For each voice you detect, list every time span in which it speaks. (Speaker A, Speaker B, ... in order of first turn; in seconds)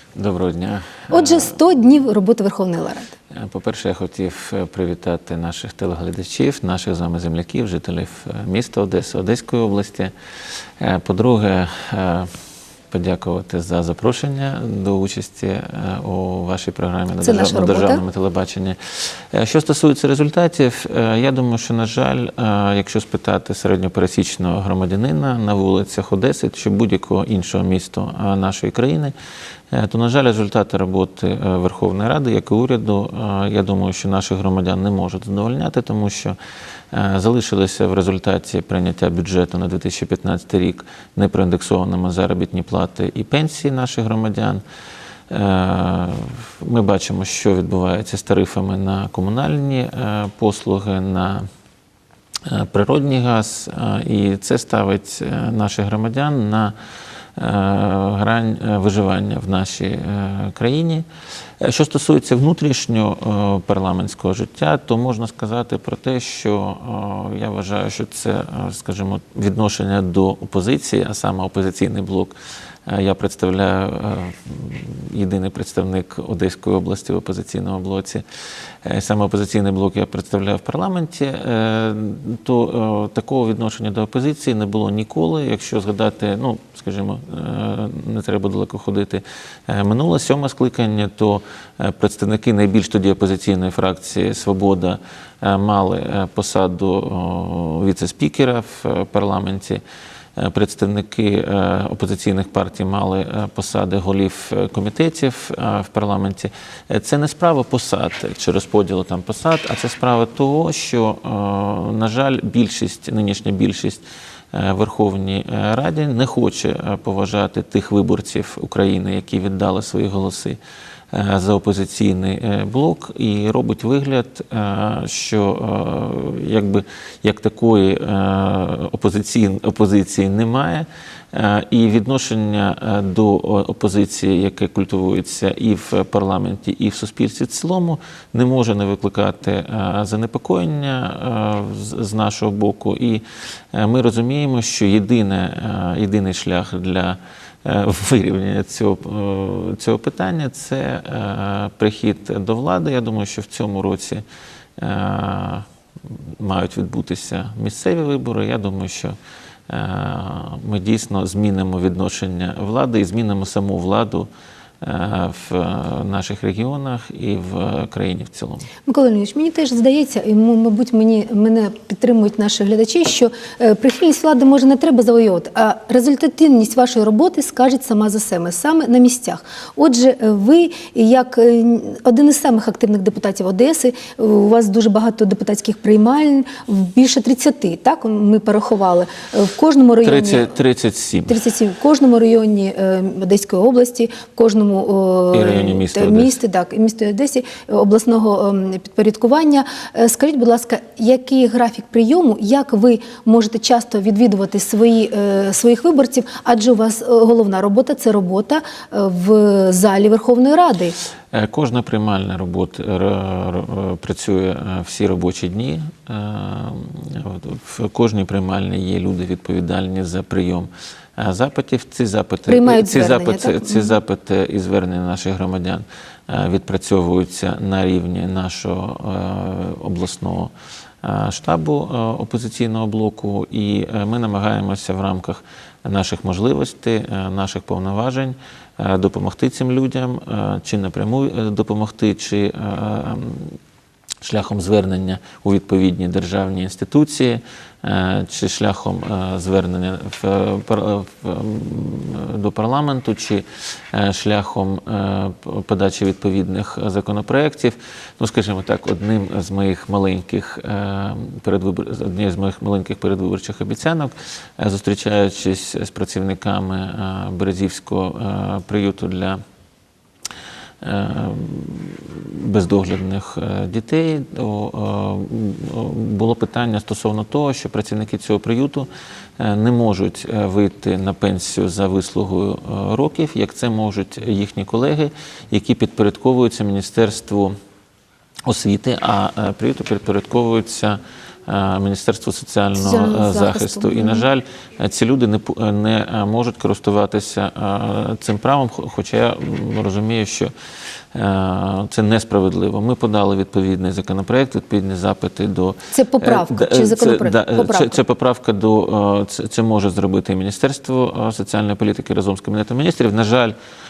Speaker A: 0.2-1.5, 3.3-10.1, 10.8-12.3, 12.9-18.8, 19.3-29.1, 29.7-36.4, 36.9-44.6, 45.3-51.5, 52.5-56.8, 57.4-61.1, 61.6-72.3, 72.9-78.2, 78.8-99.8, 100.4-120.6, 121.1-154.2, 154.8-159.2, 159.7-164.3, 164.8-168.7, 190.0-191.4, 195.3-196.3, 211.3-230.5, 231.0-243.6, 244.2-269.4, 270.8-287.5, 288.5-300.5, 301.1-313.5
Speaker B: 1.1-3.1, 17.2-18.0, 168.9-190.5, 191.3-211.0, 222.5-224.0, 292.8-294.3, 305.9-308.0